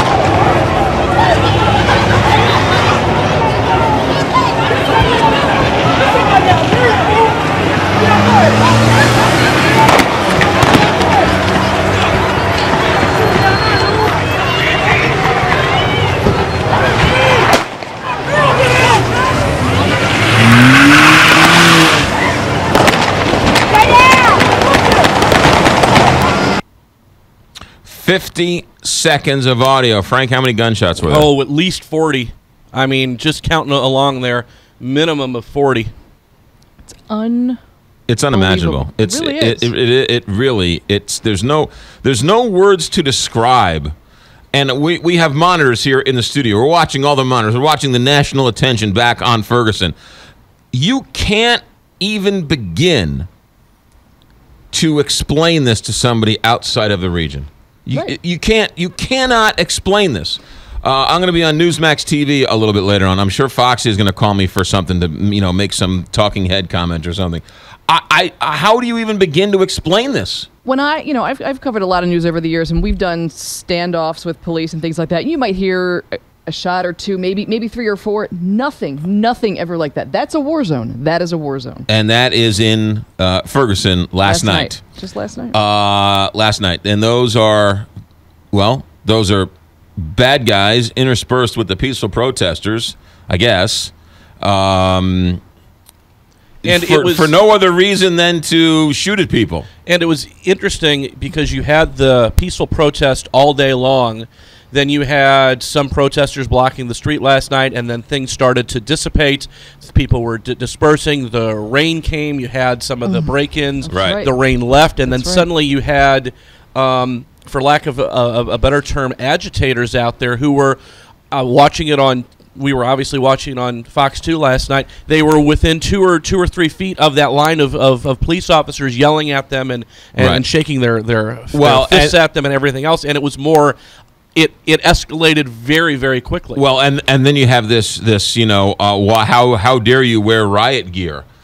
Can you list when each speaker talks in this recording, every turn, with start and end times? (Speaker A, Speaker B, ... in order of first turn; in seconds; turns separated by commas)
Speaker A: 27.9-31.3, Speaker B: 31.0-35.9, Speaker C: 36.9-37.6, Speaker A: 38.1-43.9, Speaker C: 38.3-39.7, Speaker A: 44.5-50.0, Speaker A: 50.7-53.3, Speaker A: 54.7-70.5, Speaker C: 70.6-81.9, Speaker A: 81.9-84.8, Speaker C: 84.2-85.6, Speaker A: 85.5-87.9, Speaker A: 88.5-95.4, Speaker A: 96.6-99.7, Speaker B: 96.7-97.3, Speaker B: 99.9-120.8, Speaker C: 113.0-114.3, Speaker A: 113.9-114.2, Speaker C: 115.0-115.5, Speaker B: 121.3-133.8, Speaker A: 130.2-130.4, Speaker A: 131.5-132.2, Speaker B: 134.3-136.6, Speaker A: 136.6-141.2